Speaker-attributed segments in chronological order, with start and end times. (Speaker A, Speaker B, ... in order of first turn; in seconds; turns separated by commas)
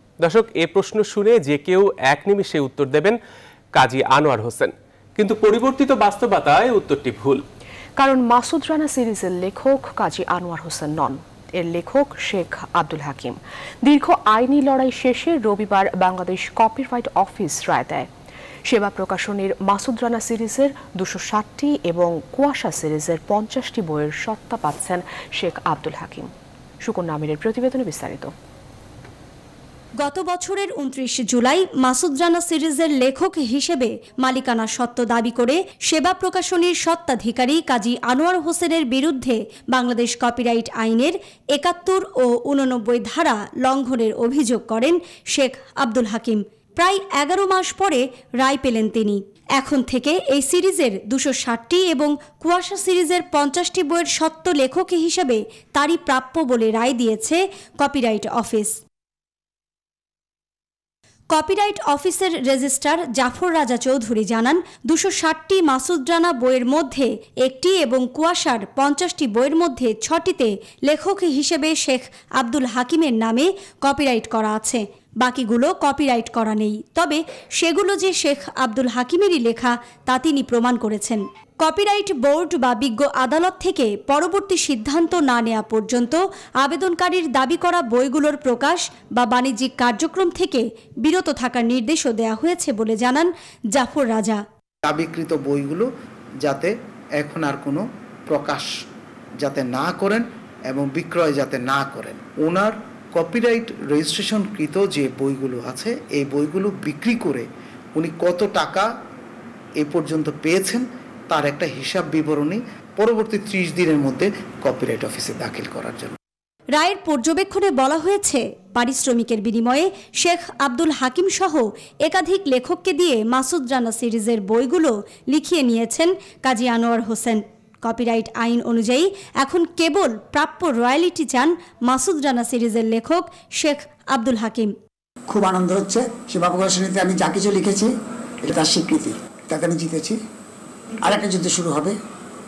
Speaker A: 0.2-3.2, Speaker A: 3.7-7.4, Speaker B: 8.0-18.1, Speaker B: 18.7-26.3, Speaker B: 26.8-28.3, Speaker C: 30.0-58.8, Speaker C: 61.3-94.4, Speaker D: 94.8-95.9, Speaker D: 96.4-98.7, Speaker D: 99.4-108.9, Speaker D: 109.8-116.2, Speaker C: 116.8-134.7, Speaker E: 135.3-137.9, Speaker E: 138.4-140.2, Speaker E: 141.0-142.0